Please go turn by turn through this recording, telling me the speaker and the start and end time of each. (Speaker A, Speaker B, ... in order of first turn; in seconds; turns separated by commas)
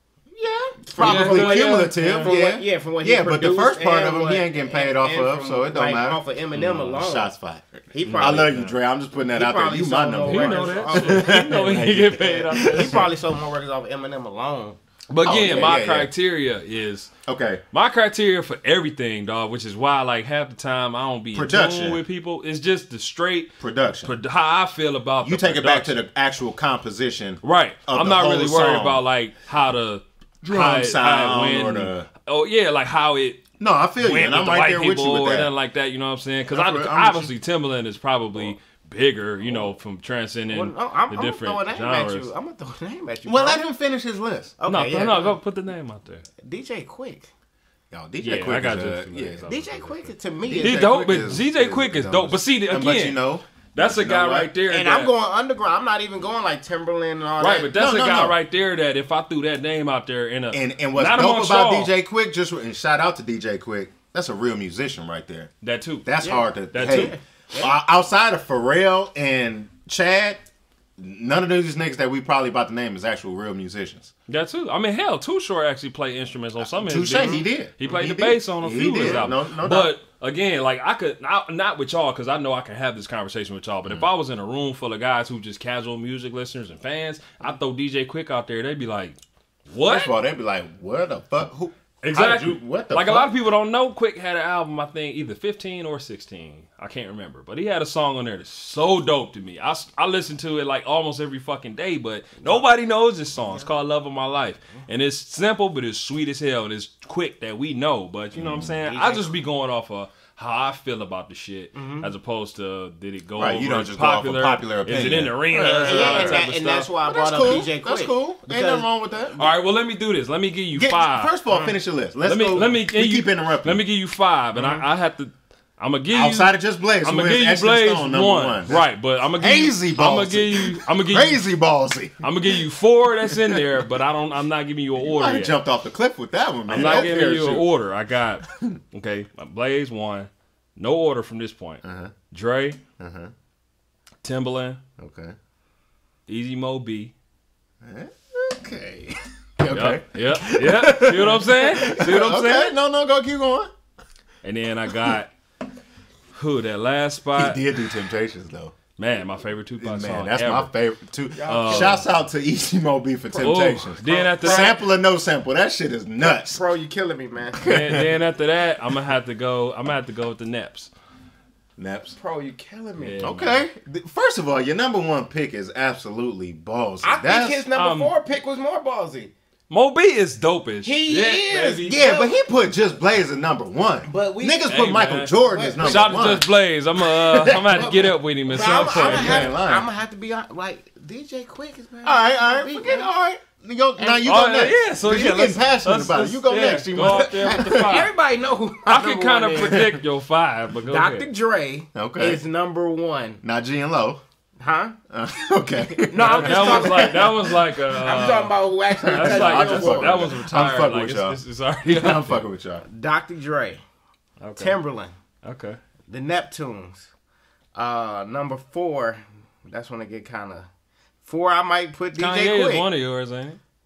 Speaker A: 0.3-6.2, Speaker B: 0.9-7.3, Speaker C: 1.0-2.3, Speaker C: 6.5-6.9, Speaker A: 6.7-13.1, Speaker B: 7.9-8.7, Speaker C: 8.0-8.7, Speaker B: 9.3-14.8, Speaker C: 10.2-13.1, Speaker C: 15.1-17.1, Speaker A: 15.2-16.1, Speaker A: 17.3-17.6, Speaker C: 17.7-26.0, Speaker A: 21.3-22.0, Speaker A: 23.6-24.1, Speaker A: 25.2-29.0, Speaker C: 27.4-33.4, Speaker A: 30.4-32.1, Speaker A: 33.6-35.5, Speaker C: 34.0-42.3, Speaker A: 36.5-37.3, Speaker B: 40.5-43.6, Speaker A: 43.3-44.5, Speaker B: 44.6-45.4, Speaker C: 44.7-46.2, Speaker B: 46.4-47.3, Speaker A: 47.9-49.5, Speaker C: 48.2-50.1, Speaker B: 49.5-50.9, Speaker A: 50.5-54.5, Speaker C: 50.6-53.2, Speaker C: 53.7-55.1, Speaker B: 54.7-57.7, Speaker C: 57.4-61.9, Speaker A: 57.7-58.4, Speaker A: 60.5-65.5, Speaker C: 65.6-66.1, Speaker A: 66.0-70.5, Speaker B: 66.2-67.7, Speaker C: 66.7-67.2, Speaker A: 71.0-74.1, Speaker C: 74.3-90.2, Speaker A: 76.7-79.9, Speaker B: 77.1-77.5, Speaker A: 89.9-93.3, Speaker C: 92.0-116.9, Speaker B: 102.4-102.7, Speaker B: 103.4-103.7, Speaker A: 108.3-108.8, Speaker B: 108.8-109.3, Speaker B: 111.7-112.1, Speaker A: 113.4-116.4, Speaker B: 115.8-118.9, Speaker A: 117.0-119.5, Speaker C: 119.3-121.3, Speaker A: 120.8-123.8, Speaker C: 122.2-131.4, Speaker B: 124.5-124.9, Speaker A: 126.1-128.8, Speaker A: 129.4-132.2, Speaker C: 132.2-135.6, Speaker A: 133.3-133.7, Speaker A: 135.0-137.7, Speaker C: 136.7-142.8, Speaker A: 138.5-138.8, Speaker A: 141.8-142.1, Speaker A: 143.0-143.3, Speaker C: 144.2-144.8, Speaker A: 145.0-145.3, Speaker C: 146.3-147.1, Speaker A: 147.8-153.7, Speaker C: 149.7-152.7, Speaker C: 154.4-155.3, Speaker C: 156.3-157.9, Speaker A: 157.3-158.8, Speaker C: 159.0-160.7, Speaker A: 159.8-166.6, Speaker B: 161.3-162.0, Speaker C: 161.4-162.0, Speaker C: 163.3-164.8, Speaker B: 164.1-164.8, Speaker B: 166.2-167.6, Speaker A: 167.6-168.1, Speaker C: 167.6-170.9, Speaker A: 171.8-172.2, Speaker B: 172.2-173.3, Speaker C: 173.0-173.7, Speaker A: 173.2-177.7, Speaker B: 177.0-179.3, Speaker C: 177.7-178.1, Speaker C: 179.7-182.0, Speaker B: 180.8-182.3, Speaker A: 181.9-186.5, Speaker B: 184.1-186.4, Speaker C: 184.7-189.5, Speaker A: 187.0-188.1, Speaker B: 188.5-193.1, Speaker A: 188.8-189.9, Speaker A: 192.0-198.1, Speaker B: 194.0-194.2, Speaker C: 194.2-198.1, Speaker B: 197.0-199.9, Speaker C: 198.8-201.3, Speaker A: 199.6-199.9, Speaker B: 200.8-203.4, Speaker A: 201.9-202.4, Speaker A: 203.4-204.2, Speaker B: 204.6-205.0, Speaker A: 205.1-207.3, Speaker B: 206.0-210.4, Speaker C: 206.2-208.6, Speaker A: 209.0-212.8, Speaker C: 209.1-212.4, Speaker B: 212.9-213.8, Speaker C: 214.4-214.8, Speaker B: 214.6-215.1, Speaker C: 215.4-215.8, Speaker B: 216.1-217.1, Speaker B: 217.8-220.7, Speaker B: 221.2-222.9, Speaker C: 222.2-223.6